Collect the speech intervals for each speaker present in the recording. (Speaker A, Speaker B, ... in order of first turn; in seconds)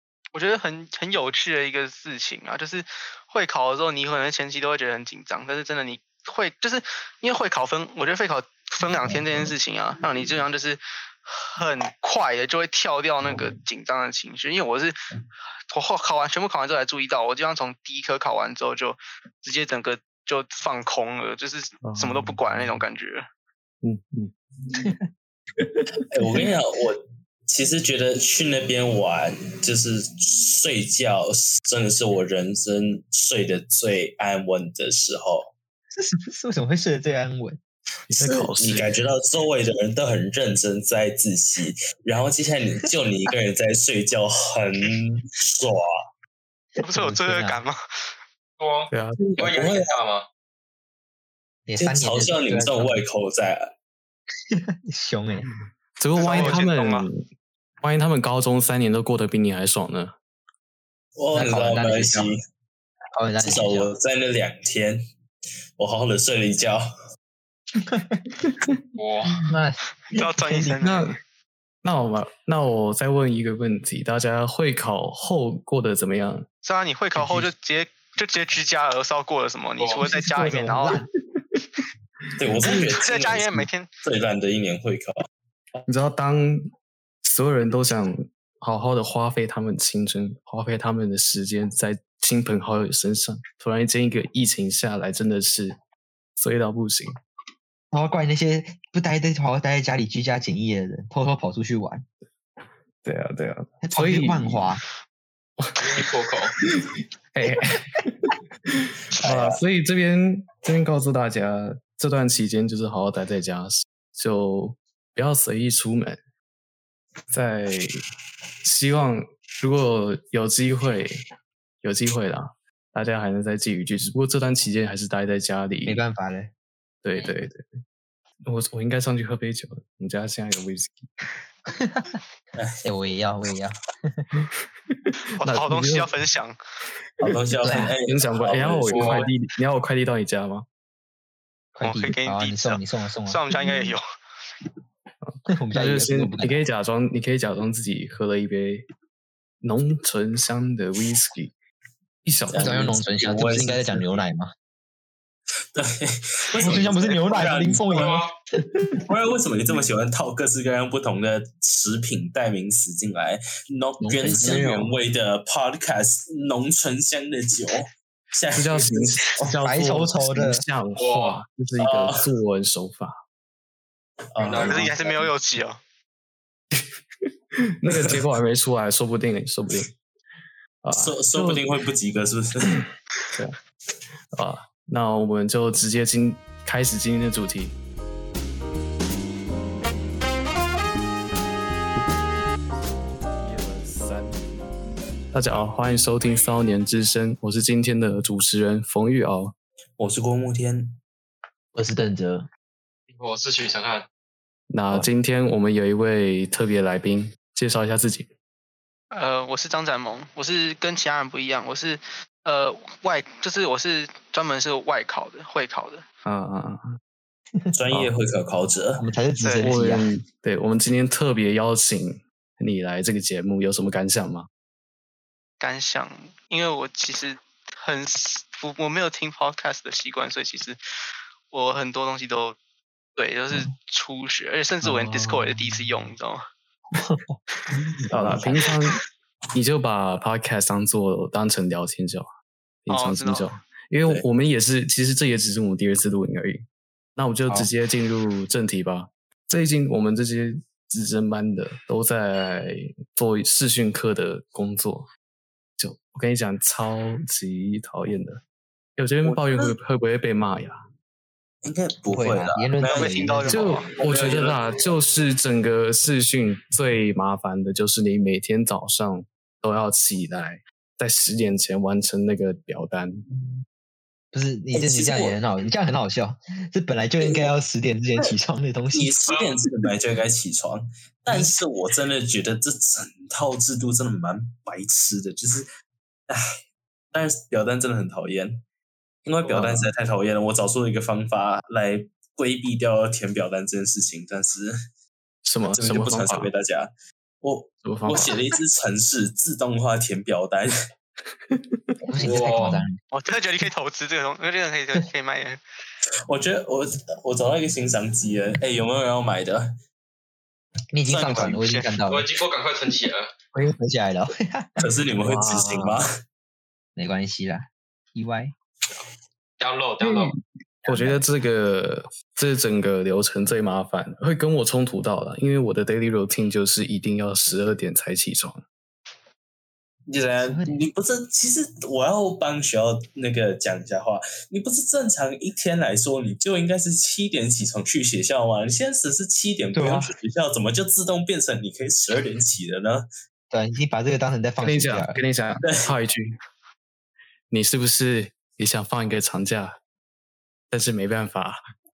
Speaker A: 0.3-14.9, 15.7-23.2, 46.8-47.8, 56.2-57.1, 70.1-71.1, 76.6-81.0, 83.0-83.9, 135.3-136.6, 141.8-144.0, 174.6-175.8, 209.1-216.0, 219.4-219.8, 225.6-230.8, 231.5-232.6, 233.2-236.4, 242.9-243.5, 262.9-263.9, 303.1-305.6, 311.1-311.9
Speaker B: 21.8-22.4, 23.8-24.9, 25.6-26.5, 38.1-39.0, 48.9-49.2, 56.0-57.2, 57.8-60.1, 70.8-71.2, 71.8-76.5, 82.5-82.9, 85.8-86.7, 87.2-95.8, 96.4-97.2, 103.0-104.7, 105.6-106.0, 106.6-116.2, 117.3-118.0, 118.6-121.2, 121.8-126.0, 127.0-127.7, 128.4-131.1, 135.4-136.1, 137.2-140.7, 145.2-148.9, 149.6-151.5, 152.2-153.0, 168.5-173.2, 177.6-179.9, 180.8-181.6, 184.3-187.8, 193.3-194.4, 195.3-199.5, 204.7-208.3, 216.2-216.8, 219.6-224.5, 234.8-235.9, 238.1-239.0, 239.5-242.3, 242.8-246.6, 247.2-255.1, 255.8-258.4, 259.0-260.8, 263.5-273.2, 289.4-289.9, 295.4-296.5, 297.8-298.4, 301.5-301.8, 315.2-316.0, 320.0-320.3, 320.8-328.6, 344.6-346.4, 347.5-349.8, 350.7-351.6
Speaker C: 24.7-25.0, 36.0-37.6, 46.8-47.6, 51.7-53.0, 54.5-55.5, 56.3-56.6, 61.3-62.3, 63.1-63.9, 67.8-68.8, 69.4-70.8, 80.0-81.0, 97.9-102.0, 103.8-104.8, 125.8-126.5, 131.7-132.2, 132.8-134.3, 137.6-137.9, 141.7-143.4, 145.5-146.6, 152.6-154.5, 156.6-159.0, 164.0-165.0, 169.6-170.6, 201.7-202.5, 219.0-220.1, 236.9-237.3, 238.1-238.7, 262.1-263.7, 274.3-279.2, 281.3-281.5, 302.1-303.0, 310.9-312.3, 313.5-314.8, 316.9-318.5, 320.8-321.2, 330.4-330.9, 339.7-340.1, 343.5-345.2
Speaker D: 26.1-35.5, 38.2-45.9, 49.2-49.9, 51.8-53.7, 61.2-62.4, 63.4-65.0, 65.8-66.8, 82.4-85.3, 109.2-109.5, 132.6-132.8, 137.2-139.3, 152.5-154.2, 155.7-158.2, 159.1-169.2, 171.8-172.2, 174.3-174.8, 177.9-178.1, 180.9-182.8, 200.0-201.0, 217.7-219.0, 259.2-259.8, 261.6-263.2, 264.0-264.6, 274.7-275.4, 277.2-277.5, 278.9-285.7, 287.1-288.6, 289.2-294.7, 295.7-300.8, 306.3-309.7, 311.1-311.6, 314.8-316.1, 330.1-343.1, 345.6-345.9
Speaker E: 48.6-50.2, 69.0-69.4, 79.8-80.0, 105.8-106.5, 138.9-139.3, 157.9-158.4, 170.9-171.4, 174.4-175.1, 203.1-204.1, 279.3-279.6, 302.2-302.8, 312.0-313.3, 319.6-320.3